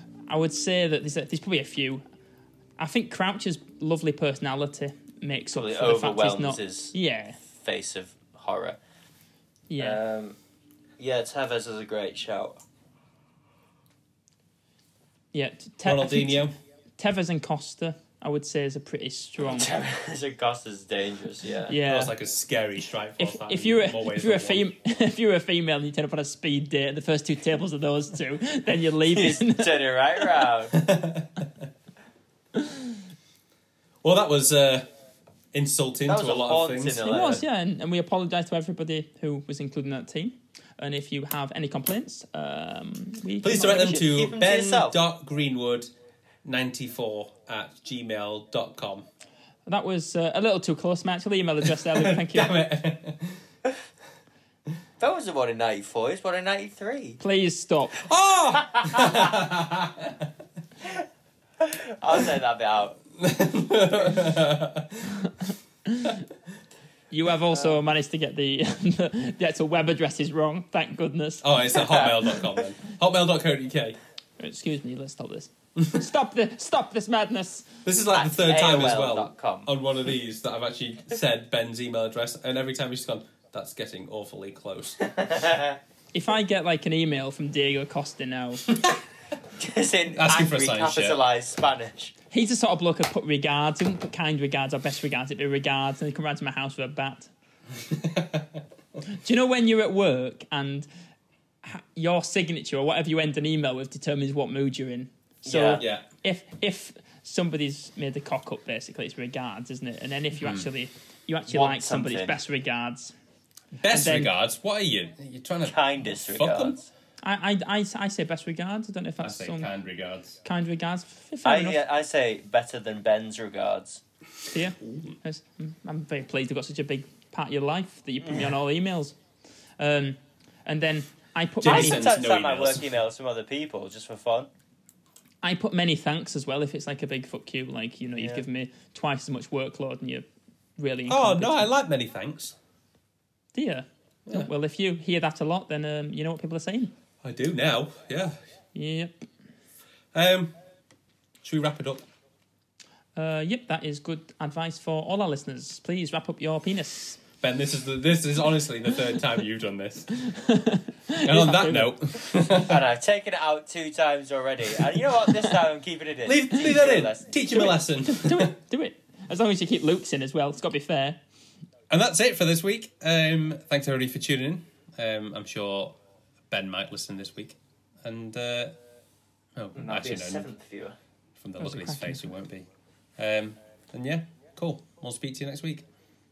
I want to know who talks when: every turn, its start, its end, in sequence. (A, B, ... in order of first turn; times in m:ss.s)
0:00.3-0:02.0 A
0:02.8-0:07.4 A
0:05.5-0:07.0 B
0:07.5-0:08.8 B
0:09.7-0:10.0 A
0:09.8-0:10.4 B
0:11.0-0:12.6 B
0:15.3-0:19.7 A
0:15.8-0:16.5 C
0:19.4-0:21.8 B
0:21.7-0:22.1 A
0:21.8-0:24.6 C
0:23.2-0:30.5 A
0:29.1-0:30.8 B
0:30.7-0:31.5 C
0:32.6-0:33.0 A
0:34.0-0:34.9 C
0:35.5-0:37.2 C
0:36.1-0:37.4 B
0:37.0-0:44.1 A
0:43.4-0:45.9 C
0:44.0-0:45.0 B
0:46.4-0:49.0 C
0:49.6-0:52.5 A
0:51.8-0:53.4 C
0:55.0-0:57.2 B
0:57.2-0:58.0 A
0:58.0-1:00.3 C
0:58.7-0:59.3 B
1:01.6-1:03.0 B
1:03.2-1:05.3 C
1:05.9-1:06.2 A
1:07.1-1:11.5 A
1:11.4-1:14.0 C
1:11.9-1:12.2 B
1:14.4-1:17.7 A
1:17.8-1:25.1 C
1:18.1-1:19.7 B
1:25.2-1:25.8 B
1:26.1-1:28.7 A
1:29.6-1:32.1 B
1:30.1-1:31.2 C
1:32.3-1:37.3 A
1:37.8-1:38.6 C
1:39.1-1:40.9 A
1:41.6-1:53.1 A
1:45.4-1:45.8 B
1:45.8-1:46.0 C
1:51.5-1:52.4 B
1:53.8-1:56.8 C
1:53.8-1:54.3 A
1:55.6-1:56.9 B
1:57.2-1:59.7 A
1:59.2-2:00.4 C
2:00.4-2:01.8 A
2:01.4-2:04.0 B
2:04.5-2:09.2 A
2:04.8-2:05.1 C
2:09.8-2:12.1 A
2:11.6-2:12.9 C
2:11.6-2:14.5 B
2:15.4-2:20.2 A
2:18.2-2:18.4 B
2:20.8-2:21.7 A
2:21.1-2:22.5 C
2:23.5-2:26.9 A
2:27.2-2:28.4 C
2:28.7-2:29.3 A
2:30.1-2:30.6 C
2:31.4-2:32.0 C
2:33.2-2:37.2 A
2:37.4-2:40.1 C
2:40.2-2:42.0 A
2:41.2-2:42.8 C
2:42.6-2:47.7 B
2:46.2-2:48.5 C
2:47.5-2:51.2 A
2:51.9-2:56.0 C
2:56.5-2:58.8 C
2:59.5-3:00.5 C
2:59.8-3:01.0 B
3:01.4-3:05.8 C
3:01.6-3:02.3 A